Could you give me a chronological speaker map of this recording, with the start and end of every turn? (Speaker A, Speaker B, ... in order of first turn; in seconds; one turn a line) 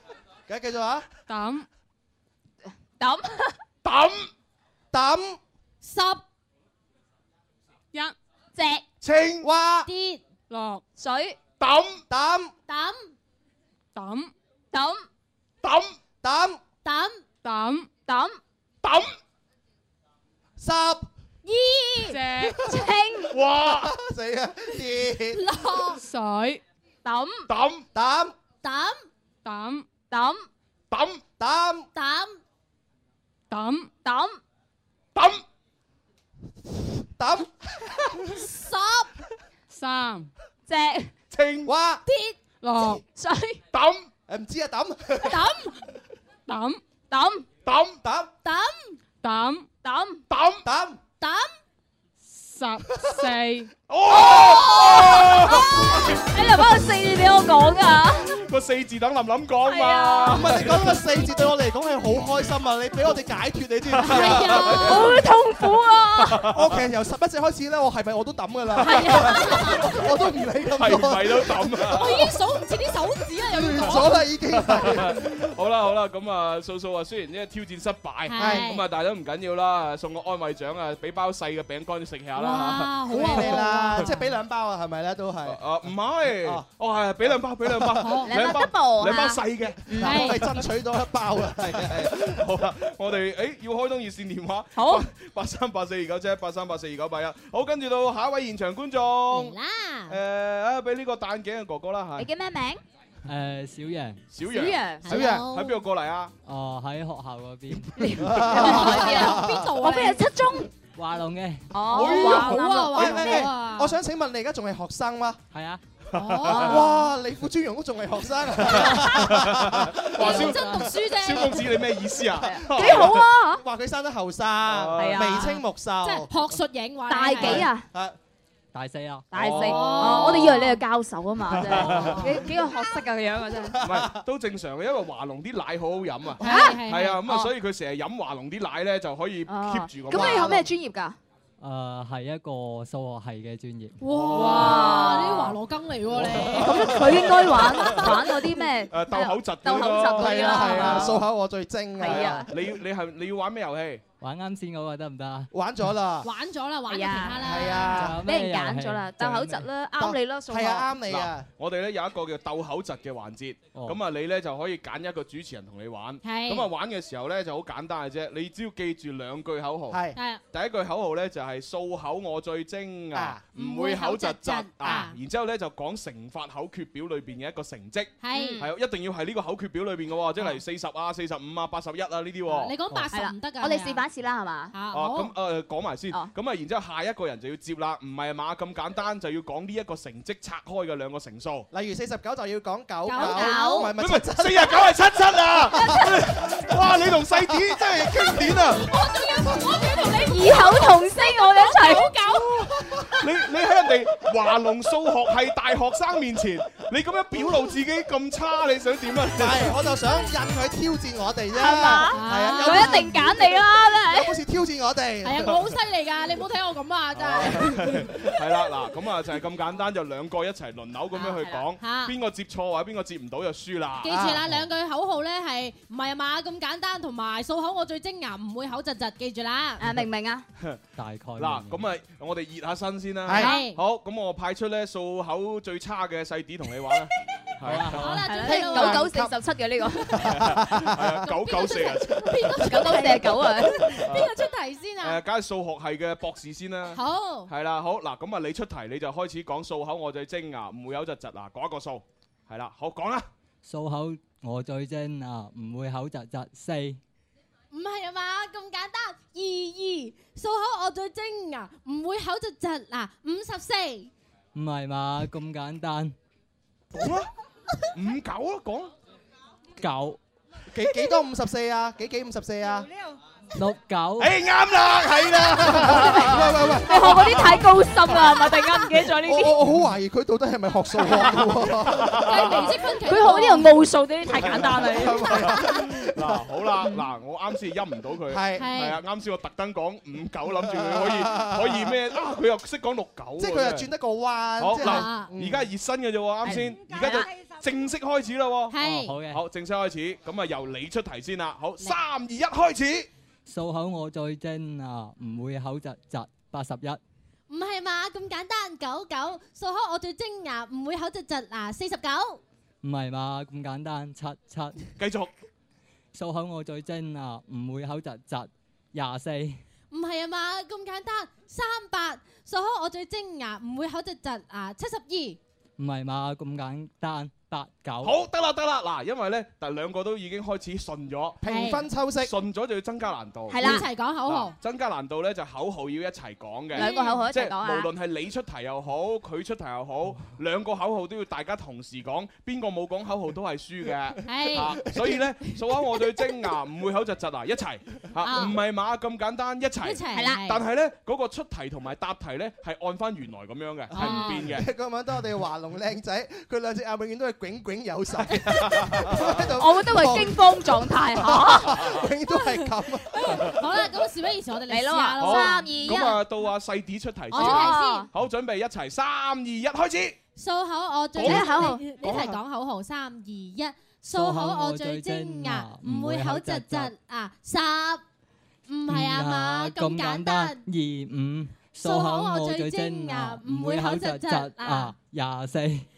Speaker A: 0.5-1.0
Speaker B: 1.3-1.6
Speaker C: 3.0-3.5
Speaker D: 3.8-4.3
Speaker A: 4.9-5.4
Speaker E: 5.8-6.2
Speaker C: 8.5-8.8
Speaker D: 9.0-9.5
Speaker A: 9.4-9.9
Speaker E: 9.8-10.2
Speaker B: 10.5-10.8
Speaker C: 11.0-11.4
Speaker D: 11.6-12.0
Speaker A: 12.1-12.5
Speaker E: 12.7-13.1
Speaker B: 13.9-14.3
Speaker C: 14.7-15.1
Speaker D: 15.6-15.9
Speaker A: 16.2-16.6
Speaker E: 16.8-17.2
Speaker B: 17.4-17.9
Speaker C: 18.1-18.4
Speaker D: 18.8-19.1
Speaker A: 20.6-21.1
Speaker E: 21.4-22.3
Speaker B: 22.1-22.6
Speaker C: 22.6-23.3
Speaker D: 23.3-23.9
Speaker A: 23.6-25.4
Speaker E: 25.3-26.0
Speaker B: 25.9-26.6
Speaker C: 27.0-27.5
Speaker D: 27.5-27.8
Speaker A: 27.9-28.3
Speaker E: 28.6-29.1
Speaker B: 29.4-29.9
Speaker C: 30.1-30.5
Speaker D: 30.9-31.2
Speaker A: 31.4-31.9
Speaker E: 31.9-32.4
Speaker B: 33.5-33.9
Speaker C: 34.0-34.4
Speaker D: 35.1-35.4
Speaker A: 37.1-38.2
Speaker E: 38.4-39.1
Speaker B: 39.7-40.3
Speaker C: 40.7-41.1
Speaker D: 41.3-41.7
Speaker A: 41.6-42.0
Speaker E: 42.0-42.4
Speaker B: 42.6-43.0
Speaker C: 43.1-43.6
Speaker D: 43.7-44.1
Speaker A: 44.3-45.4
Speaker E: 45.3-45.7
Speaker B: 46.5-46.8
Speaker C: 47.1-47.4
Speaker D: 47.6-48.0
Speaker A: 48.0-48.3
Speaker E: 48.4-49.0
Speaker B: 49.2-49.7
Speaker C: 49.8-50.2
Speaker D: 50.3-50.6
Speaker A: 50.6-51.0
Speaker E: 51.2-51.5
Speaker B: 52.2-53.7
Speaker D: 53.9-56.0
Speaker C: 54.1-58.3
Speaker D: 58.3-61.0
Speaker C: 59.6-60.5
Speaker A: 60.3-65.0
Speaker D: 63.9-65.0
Speaker E: 64.1-65.1
Speaker C: 64.7-66.4
Speaker D: 66.2-66.7
Speaker A: 66.5-72.2
Speaker E: 68.8-69.8
Speaker D: 70.8-72.3
Speaker E: 71.9-74.2
Speaker A: 73.5-75.1
Speaker D: 74.5-84.0
Speaker E: 78.3-78.8
Speaker A: 78.4-78.7
Speaker E: 82.3-84.3
Speaker A: 83.1-85.6
Speaker D: 85.5-90.3
Speaker A: 87.6-88.0
Speaker E: 88.0-88.3
Speaker C: 88.2-90.3
Speaker A: 90.0-92.4
Speaker E: 90.0-90.4
Speaker D: 91.8-99.5
Speaker C: 94.7-95.0
Speaker E: 99.3-100.2
Speaker D: 100.1-102.3
Speaker C: 102.2-102.8
Speaker F: 103.3-104.2
Speaker D: 104.3-106.3
Speaker C: 104.5-105.0
Speaker E: 105.0-105.8
Speaker A: 105.1-105.4
Speaker F: 106.4-107.9
Speaker C: 108.0-110.7
Speaker A: 108.2-109.7
Speaker E: 108.6-110.3
Speaker F: 110.9-111.7
Speaker C: 111.7-113.4
Speaker E: 111.9-114.0
Speaker D: 111.9-112.6
Speaker A: 112.9-115.4
Speaker F: 115.5-115.8
Speaker D: 116.1-116.8
Speaker E: 116.1-117.0
Speaker C: 116.5-116.9
Speaker A: 116.6-120.3
Speaker D: 118.7-123.2
Speaker E: 120.2-121.8
Speaker C: 122.4-123.6
Speaker A: 122.7-126.3
Speaker D: 124.7-125.4
Speaker C: 125.0-125.6
Speaker E: 126.0-127.7
Speaker C: 127.1-127.8
Speaker A: 127.9-128.2
Speaker F: 128.7-129.3
Speaker C: 129.3-133.8
Speaker D: 129.3-130.3
Speaker E: 129.5-130.8
Speaker D: 131.5-132.3
Speaker A: 133.6-134.1
Speaker D: 133.8-140.5
Speaker E: 136.4-137.2
Speaker C: 136.4-137.5
Speaker C: 139.5-141.2
Speaker A: 140.1-140.6
Speaker F: 141.6-143.9
Speaker E: 144.0-147.0
Speaker D: 144.1-145.0
Speaker C: 144.3-145.5
Speaker D: 146.2-146.5
Speaker C: 146.5-151.2
Speaker D: 147.8-148.1
Speaker D: 148.9-151.2
Speaker A: 150.1-152.5
Speaker C: 152.0-152.5
Speaker D: 152.1-154.0
Speaker F: 154.2-155.5
Speaker A: 155.5-156.3
Speaker E: 156.2-158.0
Speaker C: 156.9-157.5
Speaker A: 157.4-158.2
Speaker F: 157.9-159.7
Speaker C: 158.2-160.9
Speaker A: 160.0-161.5
Speaker D: 161.1-170.0
Speaker E: 166.2-166.7
Speaker A: 169.9-170.2
Speaker E: 170.1-170.4
Speaker D: 170.5-182.8
Speaker A: 173.1-173.4
Speaker E: 173.5-175.2
Speaker E: 178.2-178.6
Speaker C: 178.3-178.7
Speaker E: 182.5-184.0
Speaker C: 183.1-184.7
Speaker E: 184.7-185.3
Speaker D: 184.9-191.7
Speaker A: 191.7-194.9
Speaker E: 193.1-193.9
Speaker C: 193.2-193.9
Speaker D: 194.0-198.8
Speaker A: 195.5-196.1
Speaker A: 197.3-197.8
Speaker E: 198.9-202.6
Speaker C: 200.2-202.1
Speaker D: 203.2-209.7
Speaker A: 209.3-213.1
Speaker C: 211.5-214.3
Speaker E: 211.8-213.2
Speaker A: 214.0-215.4
Speaker E: 215.2-218.0
Speaker D: 217.1-224.3
Speaker C: 221.2-221.6
Speaker E: 221.8-222.1
Speaker E: 224.0-229.8
Speaker A: 224.1-224.4
Speaker C: 229.8-230.4
Speaker F: 231.0-231.8
Speaker D: 231.4-238.2
Speaker E: 233.4-233.8
Speaker F: 237.6-238.1
Speaker E: 237.9-239.1
Speaker C: 238.2-240.2
Speaker A: 238.4-239.3
Speaker A: 240.1-241.1
Speaker D: 240.2-242.7
Speaker E: 241.4-245.2
Speaker C: 242.6-244.0
Speaker D: 244.1-244.3
Speaker D: 245.0-253.3
Speaker E: 246.9-247.5
Speaker F: 253.6-257.0
Speaker E: 257.7-264.1
Speaker F: 264.5-266.1
Speaker D: 266.9-267.3
Speaker D: 267.9-268.9
Speaker F: 269.8-270.2
Speaker A: 270.7-272.9
Speaker F: 273.6-274.3
Speaker D: 274.2-277.4
Speaker A: 275.3-277.5
Speaker C: 275.9-279.6
Speaker A: 279.2-282.2
Speaker D: 281.3-282.8
Speaker E: 282.2-283.8
Speaker C: 283.0-285.4
Speaker D: 284.4-293.9
Speaker A: 284.9-286.3
Speaker A: 288.3-288.7
Speaker E: 288.6-289.0
Speaker A: 290.7-291.9
Speaker A: 293.4-295.6
Speaker D: 294.6-303.1
Speaker E: 294.8-295.3
Speaker C: 296.4-297.3
Speaker E: 298.7-299.1
Speaker F: 298.8-299.4
Speaker F: 303.5-307.0
Speaker E: 307.5-312.4
Speaker F: 312.8-314.8
Speaker D: 315.0-315.3
Speaker F: 316.1-319.6
Speaker E: 319.9-325.4
Speaker F: 325.8-328.2
Speaker D: 328.0-331.4
Speaker A: 331.4-332.3
Speaker E: 331.4-331.9
Speaker D: 332.2-354.6
Speaker C: 333.5-333.8
Speaker E: 333.6-334.5
Speaker C: 336.7-337.9
Speaker E: 344.2-344.8
Speaker E: 348.2-348.6
Speaker E: 349.8-350.6
Speaker C: 350.1-350.4
Speaker E: 353.9-354.4
Speaker C: 354.0-354.4
Speaker A: 354.4-360.4
Speaker D: 358.4-359.1
Speaker C: 359.6-362.0
Speaker A: 361.1-363.4
Speaker E: 363.2-366.2
Speaker C: 364.7-366.1
Speaker D: 365.2-370.2
Speaker E: 367.3-368.1
Speaker C: 367.3-368.1
Speaker E: 370.4-378.0
Speaker D: 371.2-371.5
Speaker C: 371.2-371.8
Speaker D: 372.0-372.4
Speaker F: 374.1-376.9
Speaker E: 378.7-380.6
Speaker F: 378.9-385.9
Speaker E: 381.8-384.9